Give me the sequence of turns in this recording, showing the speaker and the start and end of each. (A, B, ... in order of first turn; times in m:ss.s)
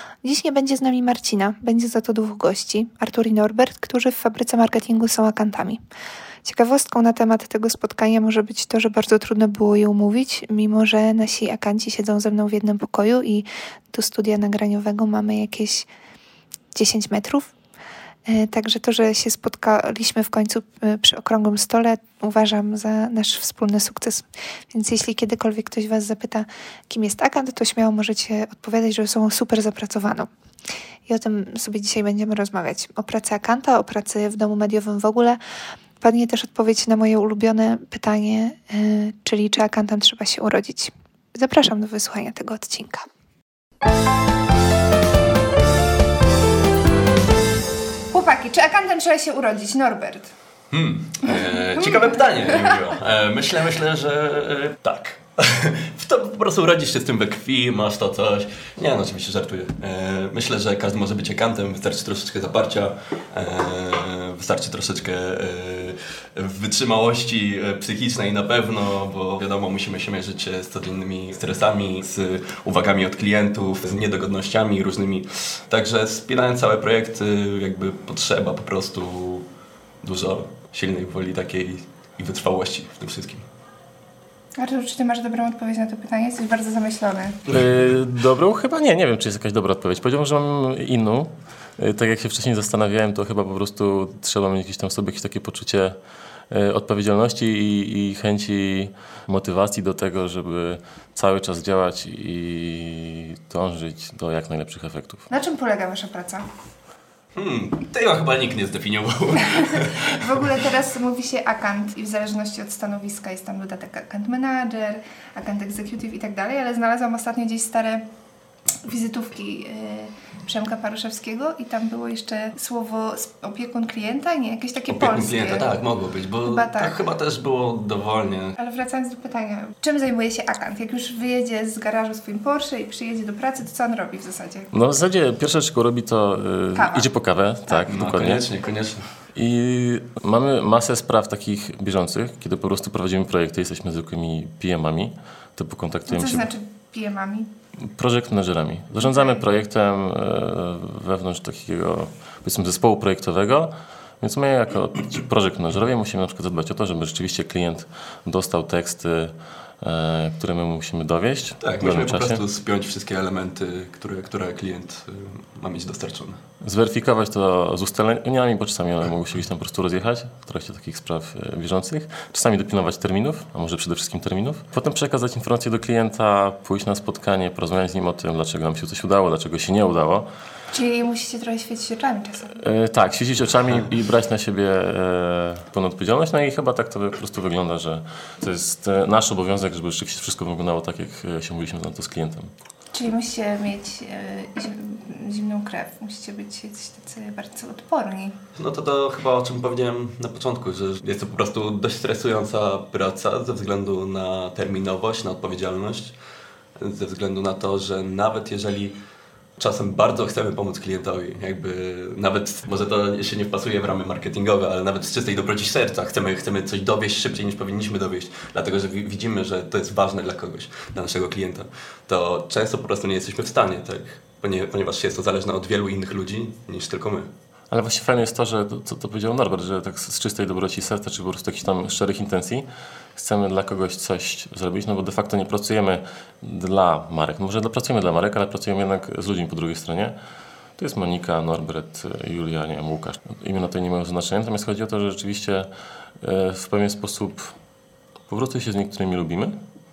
0:00.2-0:05.8 A
0:06.4-0:15.9 A
0:16.7-0:17.5 A
0:18.2-0:30.3 A
0:31.1-0:35.4 A
0:36.0-0:43.1 A
0:48.1-0:50.3 A
0:50.7-1:19.5 B
0:51.2-0:52.8 A
1:20.0-1:23.4 B
1:24.6-1:27.5 A
1:27.5-1:36.0 C
1:36.5-1:45.2 C
1:45.3-1:46.4 A
1:47.3-1:50.5 B
1:49.6-1:58.0 A
1:58.8-2:05.7 A
2:04.9-2:08.5 B
2:06.4-2:07.1 A
2:08.6-2:14.7 A
2:14.7-2:18.4 C
2:16.7-2:17.1 A
2:17.9-2:19.0 B
2:19.3-2:26.5 C
2:26.1-2:27.5 A
2:27.8-2:42.4 C
2:29.0-2:29.4 A
2:41.6-2:46.4 B
2:46.6-3:00.3 C
3:00.7-3:02.6 A
3:02.6-3:12.5 C
3:12.9-3:18.4 A
3:18.6-3:26.1 B
3:26.8-3:29.0 B
3:29.6-3:47.3 B
3:47.7-3:52.6 C
3:53.2-4:00.1 C
4:00.8-4:07.5 C
4:08.3-4:09.6 C